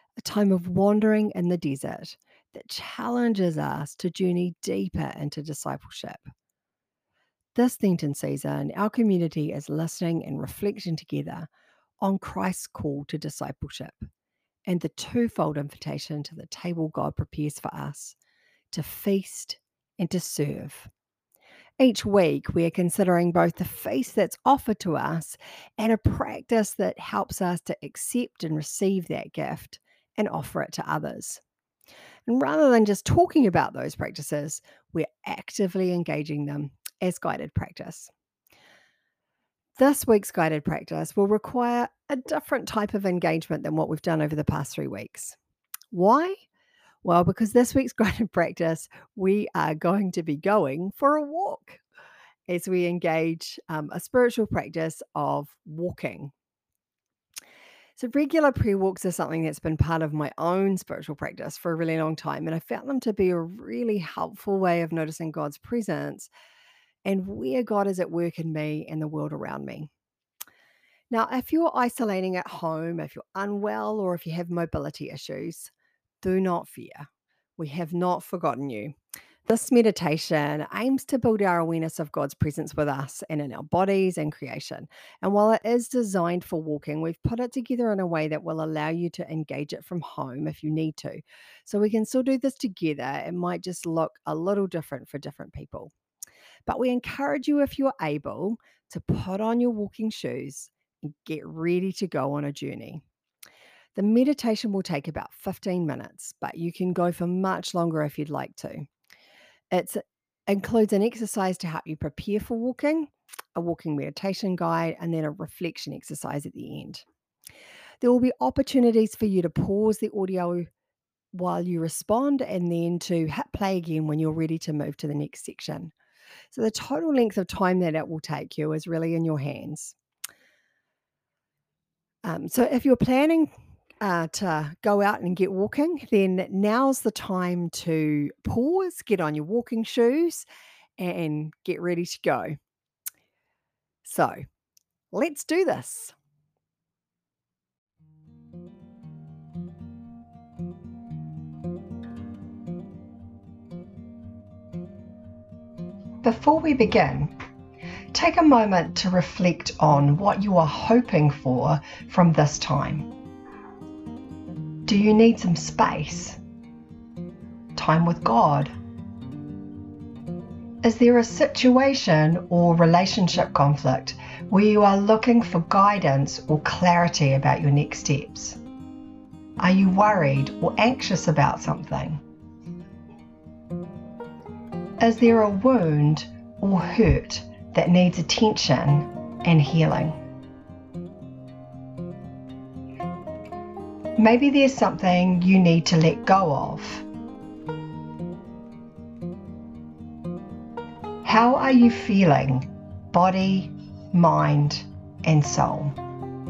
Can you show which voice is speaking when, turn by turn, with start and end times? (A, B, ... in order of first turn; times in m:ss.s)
0:00.2-0:06.3 A
0:07.5-0:11.5 A
0:12.0-0:14.1 A
0:14.6-0:18.2 A
0:18.7-0:20.9 A
0:21.8-0:31.4 A
0:32.3-0:38.1 A
0:39.8-0:45.4 A
0:45.9-0:46.4 A
0:47.0-0:51.8 A
0:52.5-0:56.3 A
0:58.0-1:06.3 A
1:07.0-1:09.9 A
1:11.1-1:18.9 A
1:19.4-1:35.9 A
1:36.6-1:43.0 A
1:43.9-1:48.9 A
1:49.7-1:57.0 A
1:58.0-2:00.7 A
2:01.3-2:05.9 A
2:06.5-2:10.0 A
2:12.2-2:20.4 A
2:21.0-2:22.6 A
2:24.0-2:24.4 A
2:25.1-2:26.1 A
2:36.2-2:37.3 A
2:38.1-2:43.1 A
2:44.8-2:46.4 A
2:47.7-2:48.7 A
2:50.8-2:58.6 A
2:59.6-3:02.2 A
3:05.0-3:10.2 A
3:14.2-3:17.0 A
3:21.2-3:26.0 A